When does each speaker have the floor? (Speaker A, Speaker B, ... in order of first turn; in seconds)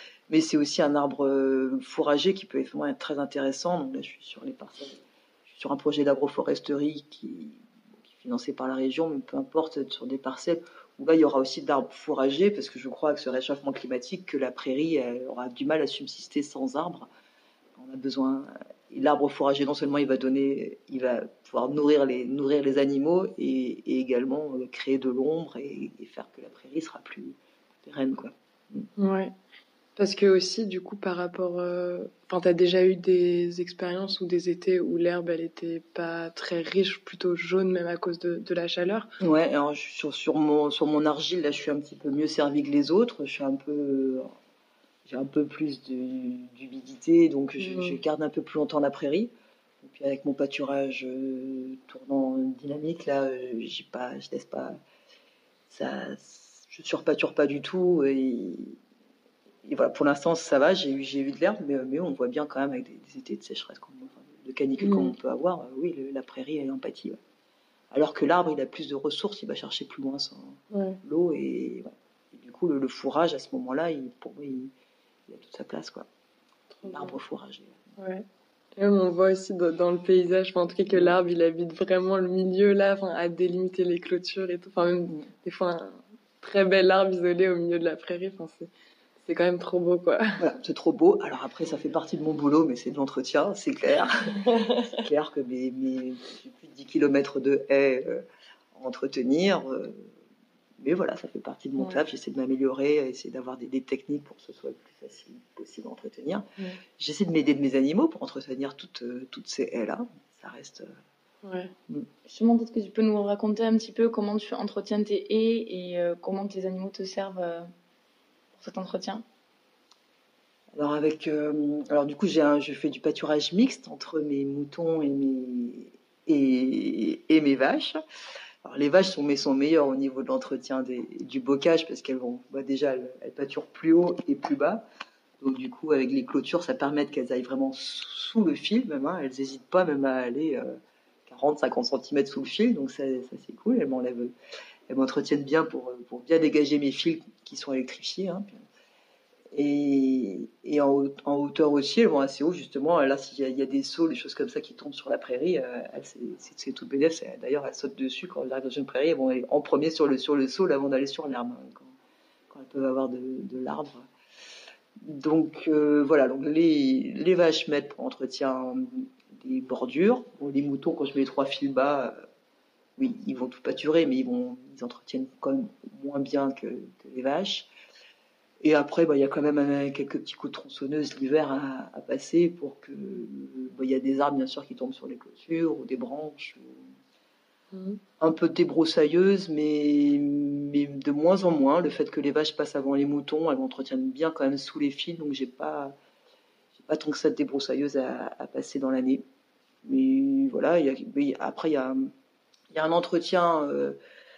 Speaker A: 0.3-17.1, 17.8-28.9, 39.2-44.3, 45.1-54.8, 55.7-58.8, 59.6-67.2, 67.9-74.7, 75.3-76.1, 76.9-77.8, 80.9-81.1, 90.4-100.1, 100.8-106.5, 107.0-110.9, 120.8-128.0, 128.6-134.8, 135.4-140.8, 141.3-144.3, 144.9-148.6, 149.5-161.9, 162.5-164.1, 165.0-172.2, 173.0-177.7, 178.6-186.9, 188.2-195.9, 196.8-199.2, 199.8-202.1, 202.7-204.0
Speaker B: 29.0-29.3, 30.0-39.1, 47.6-48.0, 64.8-65.1, 70.7-71.0, 76.7-77.1, 78.0-78.2, 78.8-88.7, 89.2-90.4, 94.5-94.9, 111.4-111.7, 187.7-188.0
Speaker C: 112.2-117.7, 118.6-119.2